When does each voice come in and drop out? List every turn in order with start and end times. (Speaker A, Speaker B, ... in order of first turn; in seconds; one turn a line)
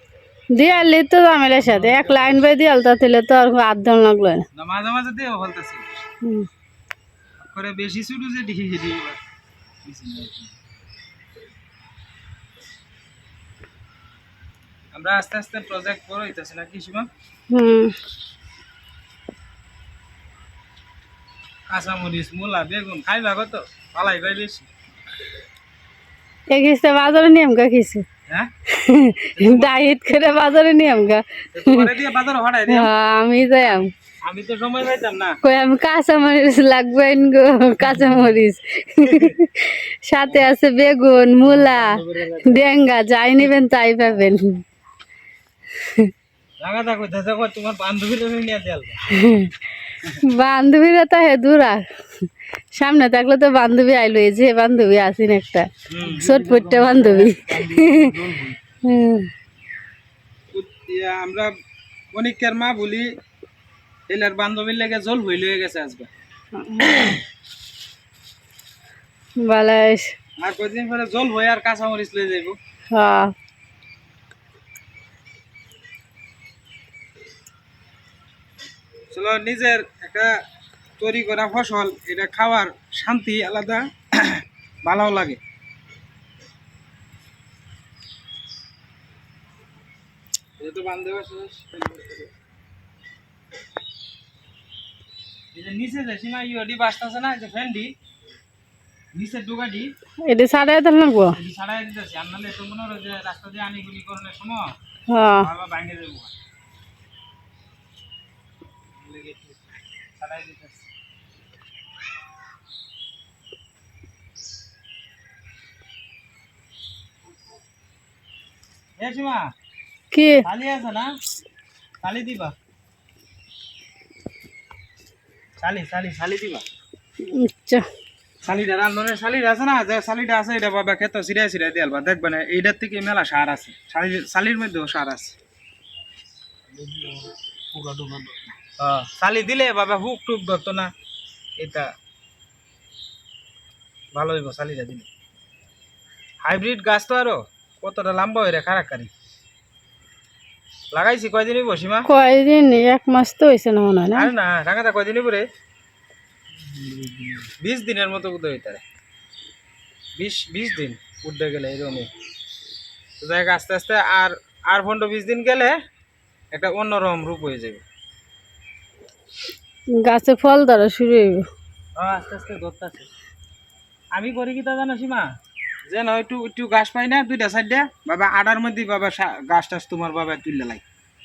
Speaker A: 0.5-4.4
Speaker B: 1.6-2.4
Speaker B: 4.5-6.0
Speaker A: 6.2-6.5
Speaker B: 7.4-9.2
Speaker B: 9.8-10.5
Speaker B: 14.9-17.1
Speaker A: 17.5-17.9
Speaker B: 21.7-24.7
Speaker A: 26.5-28.0
Speaker A: 28.7-31.9
Speaker B: 29.3-29.7
Speaker B: 31.5-32.9
Speaker A: 32.7-33.9
Speaker B: 34.2-35.4
Speaker A: 35.4-44.6
Speaker B: 41.4-42.6
Speaker A: 45.8-46.1
Speaker B: 46.6-49.0
Speaker A: 49.1-49.5
Speaker A: 50.2-51.8
Speaker A: 52.7-58.1
Speaker B: 55.9-56.2
Speaker C: 56.0-58.6
Speaker A: 58.8-59.3
Speaker B: 60.5-61.5
Speaker B: 62.1-63.1
Speaker B: 64.1-66.1
Speaker A: 66.5-67.2
Speaker B: 66.8-67.1
Speaker A: 69.4-70.1
Speaker B: 70.4-72.6
Speaker A: 72.9-73.3
Speaker B: 79.1-80.3
Speaker B: 81.0-85.4
Speaker B: 90.6-92.3
Speaker B: 95.5-97.9
Speaker B: 99.1-99.9
Speaker A: 100.2-101.3
Speaker B: 101.3-104.7
Speaker A: 105.1-105.5
Speaker B: 105.4-106.3
Speaker B: 109.0-109.6
Speaker B: 110.2-110.8
Speaker B: 119.0-119.5
Speaker A: 120.1-120.4
Speaker B: 120.4-121.2
Speaker B: 122.0-122.5
Speaker B: 125.6-126.6
Speaker A: 127.2-127.9
Speaker B: 128.4-135.3
Speaker C: 136.7-138.4
Speaker B: 138.8-140.9
Speaker B: 141.6-141.9
Speaker B: 144.1-145.1
Speaker B: 146.4-149.1
Speaker B: 150.9-152.1
Speaker A: 152.1-154.3
Speaker B: 154.1-155.5
Speaker C: 156.6-157.5
Speaker B: 157.6-158.8
Speaker B: 160.2-162.1
Speaker B: 163.2-165.8
Speaker B: 166.5-167.8
Speaker A: 169.9-171.5
Speaker B: 171.9-173.1
Speaker B: 174.1-175.3
Speaker B: 175.9-180.8